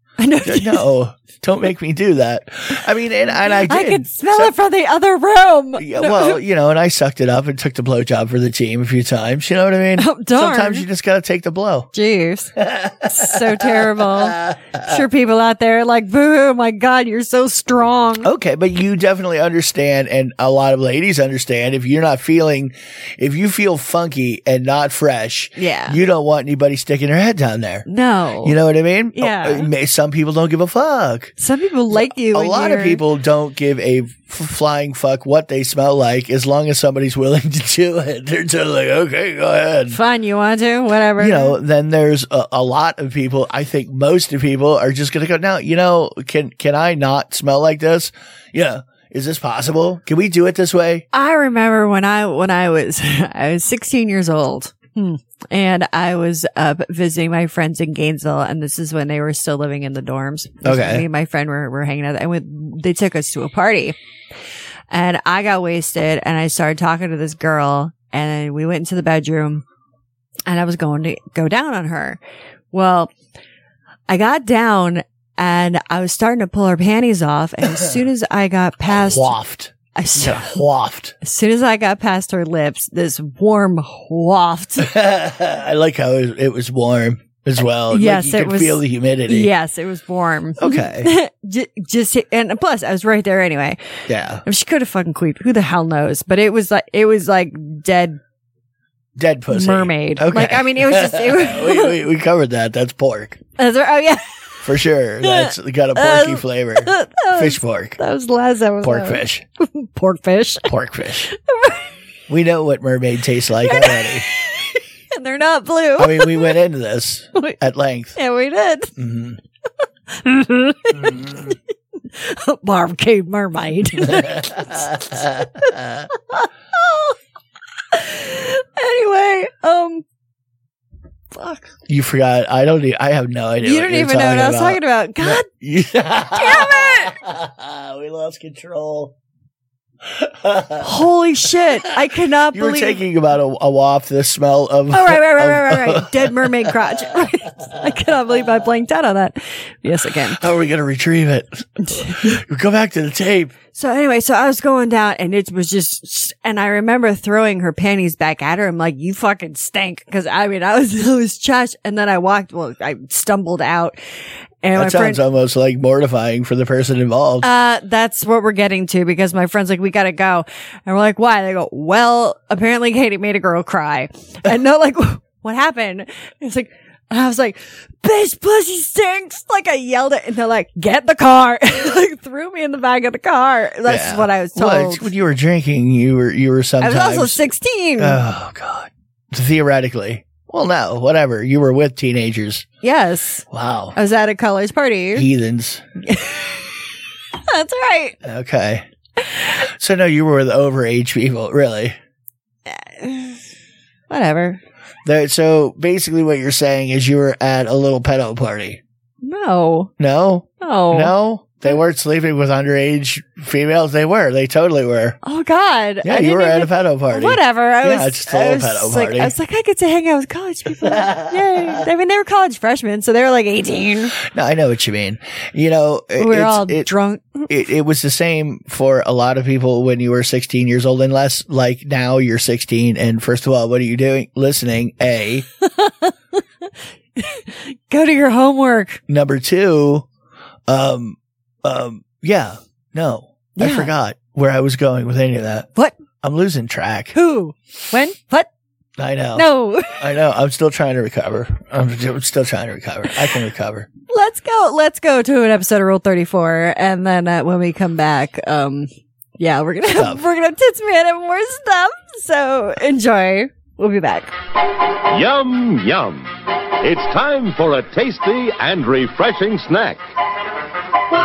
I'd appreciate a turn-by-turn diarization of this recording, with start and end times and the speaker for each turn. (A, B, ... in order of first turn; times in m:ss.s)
0:00.2-0:00.8 A
0:00.4-0:04.5 B
0:03.6-0:06.4 A
0:05.8-0:11.9 B
0:10.0-0:10.8 A
0:11.9-0:18.3 A
0:12.6-0:14.9 B
0:18.2-0:27.8 B
0:25.6-0:26.0 A
0:27.9-0:28.6 A
0:28.4-0:31.3 B
0:29.1-0:29.7 A
0:31.4-0:33.0 A
0:31.9-0:40.0 B
0:39.9-0:41.6 A
0:41.2-0:51.0 B
0:51.1-1:04.0 A
1:00.6-1:01.0 B
1:04.9-1:09.6 A
1:10.5-1:12.2 A
1:12.7-1:13.1 A
1:14.1-1:19.3 A
1:18.9-1:21.1 B
1:19.9-1:20.6 A
1:21.2-1:24.9 A
1:24.8-1:29.5 B
1:27.9-1:33.8 A
1:30.6-1:31.1 B
1:34.1-1:34.4 B
1:34.4-1:38.2 A
1:39.2-1:43.4 B
1:39.5-1:42.0 A
1:43.6-1:44.4 A
1:44.6-1:48.0 B
1:45.2-1:50.7 A
1:48.8-1:49.4 B
1:50.6-1:51.3 B
1:51.3-1:51.8 A
1:52.3-1:54.2 B
1:53.6-1:56.6 A
1:56.0-1:58.2 B
1:58.2-1:58.9 A
1:59.0-1:59.4 B
2:00.1-2:01.6 A
2:01.0-2:01.5 B
2:02.1-2:05.7 A
2:04.1-2:06.0 B
2:06.3-2:07.2 A
2:07.9-2:10.0 A
2:11.3-2:11.7 A
2:11.9-2:19.1 B
2:13.6-2:15.5 A
2:16.3-2:17.1 A
2:20.1-2:20.9 B
2:20.8-2:23.0 A
2:22.5-2:26.7 B
2:24.9-2:30.4 A
2:30.4-2:33.5 B
2:31.8-2:32.4 A
2:33.7-2:44.0 A
2:44.6-2:45.2 A
2:44.7-2:47.5 B
2:47.4-3:05.1 A
3:03.8-3:07.4 B
3:06.8-3:08.2 A
3:08.0-3:12.6 B
3:12.8-3:15.3 A
3:13.5-3:14.0 B
3:15.1-3:15.8 B
3:16.0-3:16.7 A
3:17.5-3:18.2 A
3:18.2-3:18.8 B
3:19.8-3:22.0 B
3:22.7-3:23.4 A
3:24.1-3:24.6 A
3:25.0-3:28.8 B
3:29.2-3:29.9 A
3:30.0-3:35.2 B
3:30.6-3:31.1 A
3:35.2-3:44.2 A
3:36.0-3:39.3 B
3:41.0-3:41.3 B
3:44.2-3:46.9 B
3:46.2-3:47.5 A
3:47.5-3:55.4 B
3:55.6-3:56.4 A
3:57.2-3:59.0 A
3:59.1-4:00.0 B
4:00.7-4:05.7 B
4:03.6-4:03.9 A
4:06.2-4:07.1 B
4:07.1-4:08.5 A
4:09.0-4:09.5 B
4:09.3-4:10.0 A
4:10.0-4:13.9 B
4:14.1-4:24.3 A
4:19.9-4:20.2 B
4:25.1-4:26.3 C
4:26.8-4:30.0 C